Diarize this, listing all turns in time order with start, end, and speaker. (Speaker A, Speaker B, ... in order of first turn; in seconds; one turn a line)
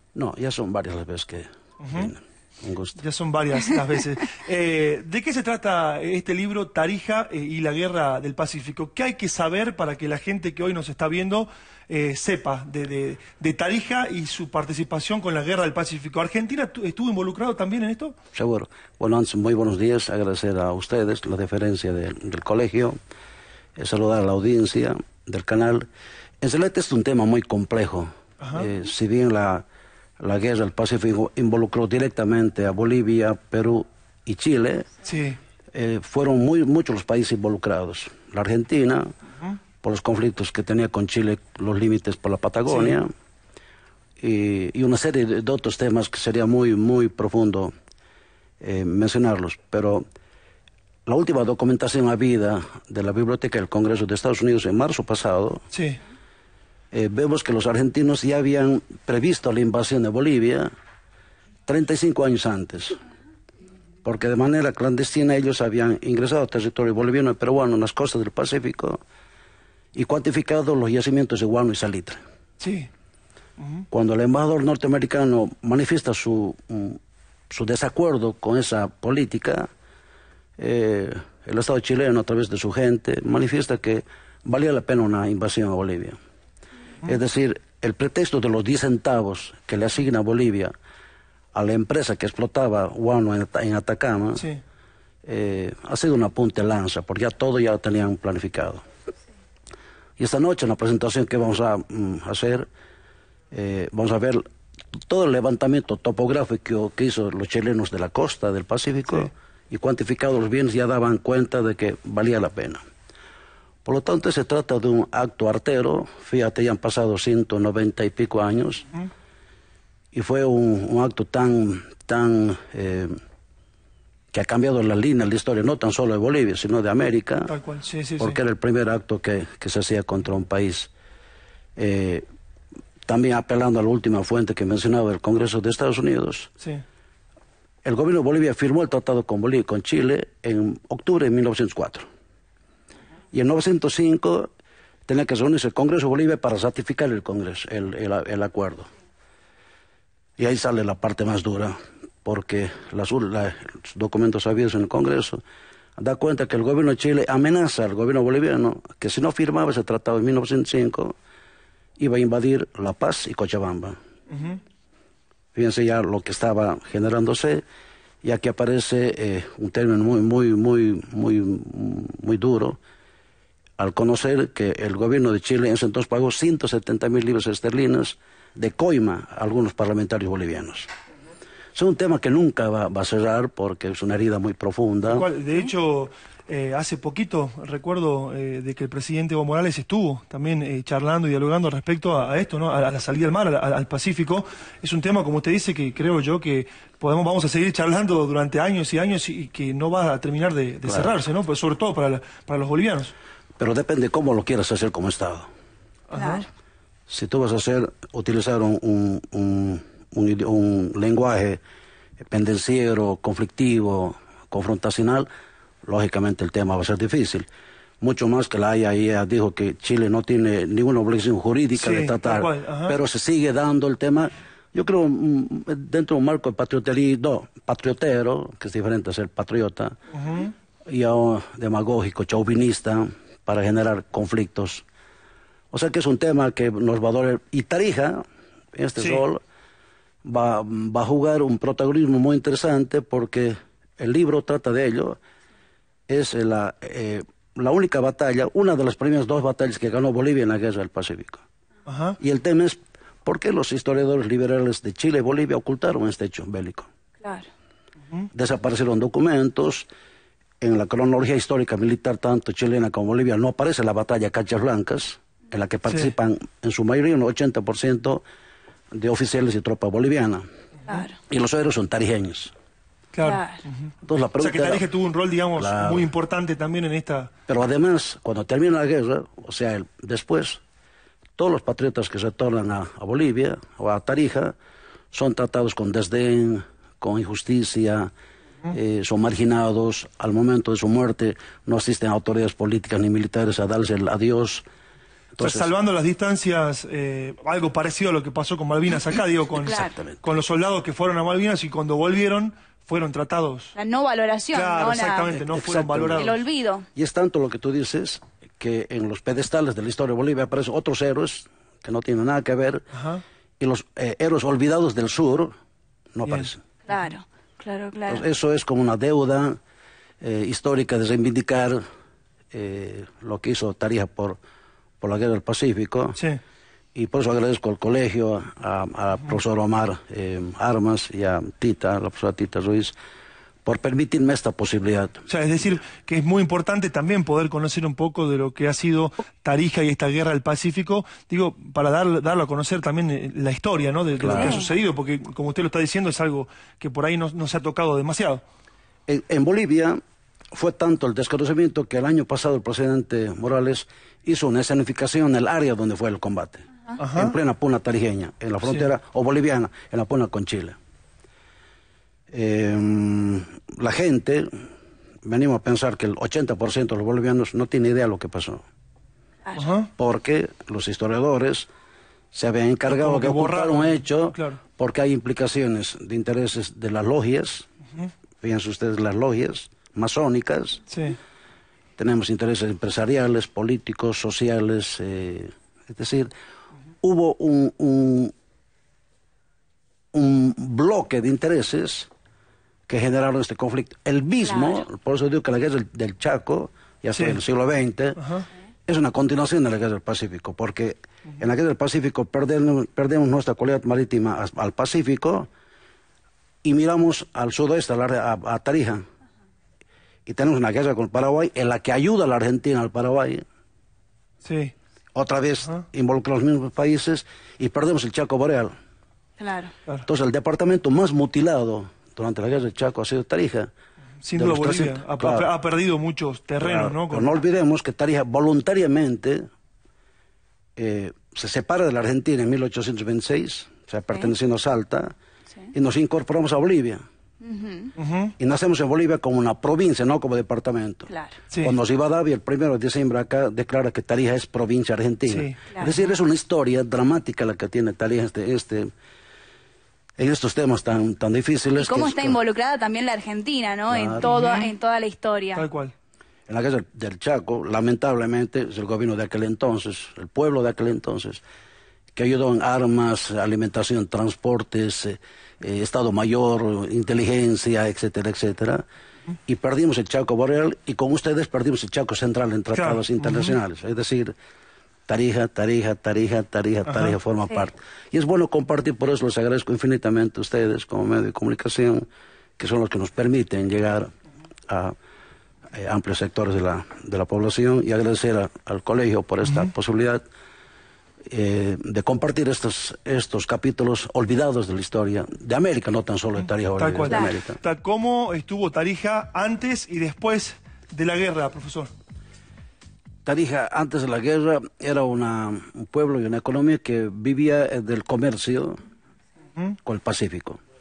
Speaker A: 0.1-3.0
Speaker B: 1.8-2.1
Speaker B: 3.0-18.2
Speaker A: 18.3-23.0
Speaker A: 23.8-25.9
Speaker A: 26.4-29.6
Speaker B: 28.4-28.7
Speaker A: 30.2-34.9
Speaker B: 35.0-35.4
Speaker A: 35.7-39.1
Speaker A: 39.8-43.1
Speaker B: 42.7-43.0
Speaker A: 44.2-47.7
Speaker A: 48.6-50.0
Speaker A: 51.1-55.6
Speaker B: 55.7-56.0
Speaker A: 56.9-60.7
Speaker A: 61.7-63.0
Speaker A: 64.0-69.0
Speaker A: 70.0-72.2
Speaker B: 72.6-72.9
Speaker B: 73.6-73.8
Speaker A: 73.9-77.0
Speaker A: 77.5-79.7
Speaker A: 80.6-86.2
Speaker A: 87.0-90.7
Speaker A: 91.5-94.5
Speaker B: 94.4-94.6
Speaker A: 95.2-98.8
Speaker A: 100.2-102.7
Speaker A: 103.5-104.4
Speaker A: 105.0-112.8
Speaker A: 113.8-118.9
Speaker A: 120.1-123.1
Speaker A: 124.3-127.5
Speaker B: 127.5-128.4
Speaker A: 128.2-130.9
Speaker A: 131.8-132.2
Speaker A: 133.1-136.5
Speaker A: 137.8-142.1
Speaker A: 143.3-144.5
Speaker A: 145.1-148.9
Speaker A: 150.4-155.4
Speaker A: 156.0-161.2
Speaker A: 162.0-164.0
Speaker B: 164.3-164.6
Speaker A: 165.6-167.6
Speaker A: 168.2-172.8
Speaker A: 173.8-180.9
Speaker A: 181.7-185.2
Speaker B: 185.1-203.1
Speaker A: 200.8-201.1
Speaker A: 203.6-205.5
Speaker B: 206.1-206.4
Speaker C: 206.1-206.4
Speaker A: 207.1-211.6
Speaker A: 212.3-215.3
Speaker A: 215.9-217.5
Speaker A: 218.0-230.0
Speaker B: 221.8-223.0
Speaker B: 230.1-230.5
Speaker A: 230.9-234.8
Speaker A: 235.7-238.2
Speaker A: 238.7-239.4
Speaker B: 239.0-239.2
Speaker A: 240.2-245.2
Speaker A: 246.1-251.4
Speaker B: 251.9-252.2
Speaker A: 252.2-256.9
Speaker C: 257.2-257.5
Speaker A: 258.3-259.9
Speaker A: 260.6-268.2
Speaker B: 265.9-266.1
Speaker A: 268.9-270.4
Speaker C: 270.9-271.1
Speaker A: 271.3-272.5
Speaker B: 273.1-273.4
Speaker C: 273.2-273.6
Speaker A: 274.0-274.9
Speaker B: 274.4-277.3
Speaker A: 275.6-276.1
Speaker A: 277.5-280.6
Speaker A: 281.4-284.6
Speaker A: 285.1-288.1
Speaker A: 288.7-294.7
Speaker A: 295.4-295.7
Speaker B: 295.4-303.8
Speaker C: 299.6-299.9
Speaker A: 299.8-300.2
Speaker C: 303.8-305.3
Speaker B: 304.5-306.4
Speaker A: 305.3-306.3
Speaker C: 306.2-306.9
Speaker A: 306.9-312.9
Speaker B: 312.9-313.2
Speaker A: 313.6-315.6
Speaker A: 316.1-316.6
Speaker B: 316.3-317.1
Speaker C: 316.9-318.2
Speaker A: 318.1-319.6
Speaker A: 320.2-321.8
Speaker A: 322.5-324.4
Speaker A: 325.0-326.2
Speaker B: 326.2-326.4
Speaker A: 326.9-332.9
Speaker A: 333.6-335.2
Speaker B: 335.3-348.4
Speaker A: 344.2-344.6
Speaker C: 344.4-344.7
Speaker A: 349.1-350.0
Speaker A: 350.5-360.8
Speaker B: 357.0-357.4
Speaker B: 358.6-358.9
Speaker A: 362.3-364.5
Speaker A: 365.2-368.6
Speaker B: 369.6-369.9
Speaker A: 370.0-371.7
Speaker A: 372.3-377.7
Speaker B: 372.9-374.6
Speaker A: 378.4-380.8
Speaker B: 380.9-381.2
Speaker A: 382.0-386.3
Speaker A: 387.0-388.3
Speaker A: 390.1-392.1
Speaker A: 392.9-398.2
Speaker C: 394.4-394.8
Speaker B: 397.1-397.4
Speaker B: 398.2-398.5
Speaker A: 398.9-405.5
Speaker A: 406.6-409.0
Speaker A: 410.3-413.4
Speaker B: 414.4-414.7
Speaker A: 415.1-418.8
Speaker C: 419.4-419.7
Speaker A: 420.1-423.7
Speaker B: 424.2-427.3
Speaker A: 424.3-425.5
Speaker A: 426.6-429.5
Speaker A: 430.8-435.1
Speaker A: 435.7-437.0
Speaker C: 437.4-437.9
Speaker B: 438.0-438.3
Speaker A: 438.4-441.1
Speaker C: 441.1-441.4
Speaker A: 441.6-448.9
Speaker B: 445.3-445.6
Speaker C: 445.7-446.0
Speaker A: 450.2-452.4
Speaker C: 451.8-455.7
Speaker A: 453.9-454.3
Speaker B: 454.2-454.7
Speaker B: 455.6-455.9
Speaker A: 456.5-461.4
Speaker A: 462.1-468.8
Speaker A: 469.5-474.3
Speaker B: 472.7-473.6
Speaker A: 475.1-482.1
Speaker B: 476.9-477.2
Speaker A: 482.6-484.1
Speaker A: 484.7-484.9
Speaker A: 485.7-490.2
Speaker B: 489.4-489.7
Speaker A: 491.3-497.6
Speaker B: 496.6-501.9
Speaker C: 497.1-497.4
Speaker A: 503.2-508.8
Speaker A: 509.8-510.6